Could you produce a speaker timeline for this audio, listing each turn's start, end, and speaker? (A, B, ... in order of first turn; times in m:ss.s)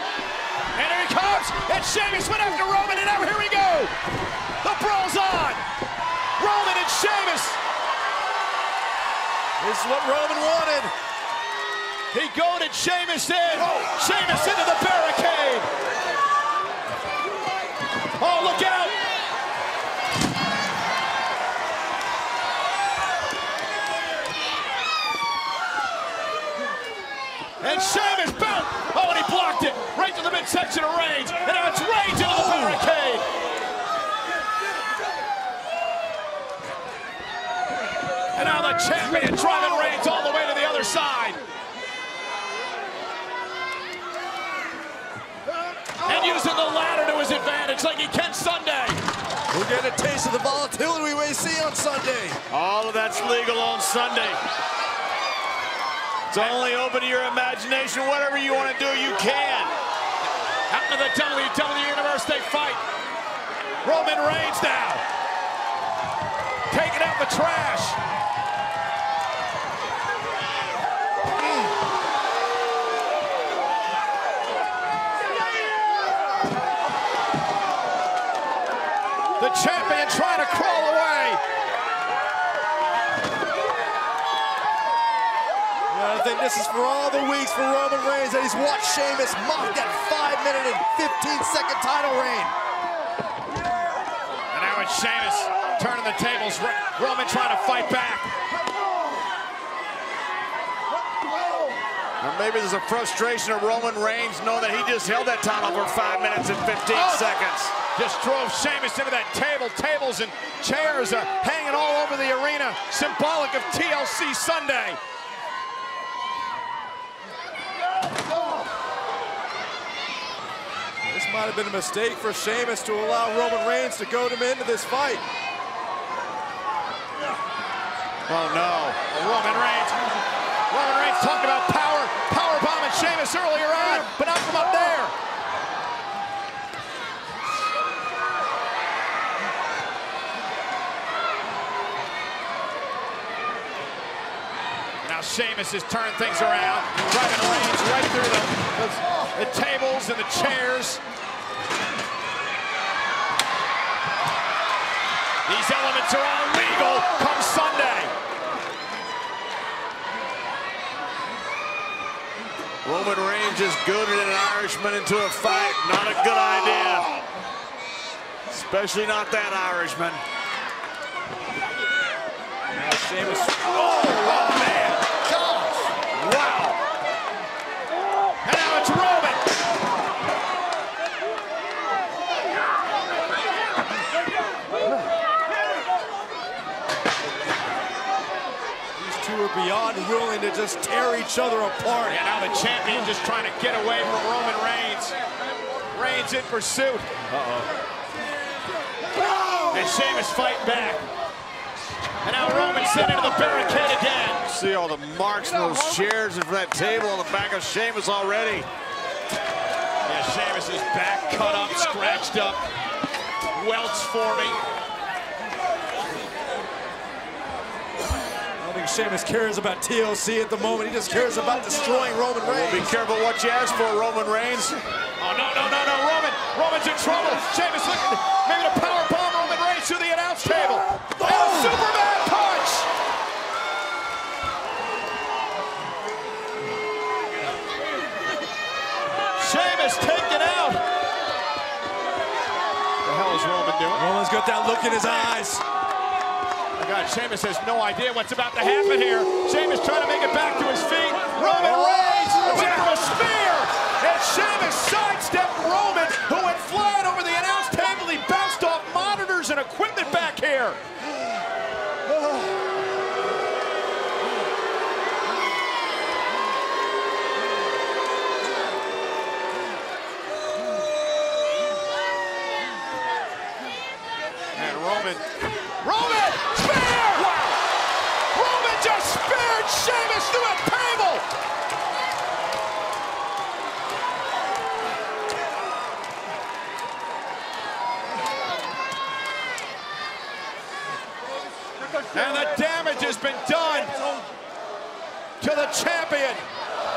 0:00.7-0:03.9 A
0:04.6-0:05.6 A
0:06.4-0:07.6 A
0:09.6-0:10.9 B
0:12.1-0:15.7 A
0:18.2-0:19.0 A
0:27.6-0:33.2 A
0:38.3-0:41.4 A
0:46.0-0:49.0 A
0:49.5-0:52.4 B
0:52.5-0:54.4 C
0:56.3-0:59.7 C
1:00.7-1:02.8 A
1:03.8-1:05.0 A
1:06.7-1:08.0 A
1:19.4-1:21.4 A
1:25.9-1:32.5 B
1:34.5-1:38.3 A
1:42.2-1:47.7 C
1:46.9-1:55.0 A
2:01.1-2:05.2 B
2:08.3-2:09.0 C
2:08.9-2:10.0 A
2:10.7-2:15.1 A
2:25.0-2:31.0 A
2:35.4-2:38.1 A
2:42.8-2:47.1 C
2:48.5-2:50.2 C
2:52.8-2:53.4 B
2:53.0-2:55.8 A
2:56.2-2:56.7 C
2:58.4-2:59.4 A
3:09.0-3:12.2 B
3:12.0-3:15.2 A
3:15.9-3:17.2 A
3:17.3-3:17.7 C
3:19.7-3:21.0 A
3:22.2-3:24.5 A
3:24.4-3:28.7 C
3:30.0-3:32.6 A
3:33.5-3:34.6 A
3:38.6-3:42.9 B
3:42.4-3:44.8 C
3:45.2-3:52.9 A
3:59.4-4:00.8 A
4:03.0-4:04.1 A
4:03.9-4:05.6 B
4:06.8-4:20.8 A
4:11.9-4:12.7 B
4:34.5-4:35.2 A
4:35.8-4:37.6 A
4:38.3-4:41.3 A
4:52.1-4:53.9 A
4:55.4-4:56.4 A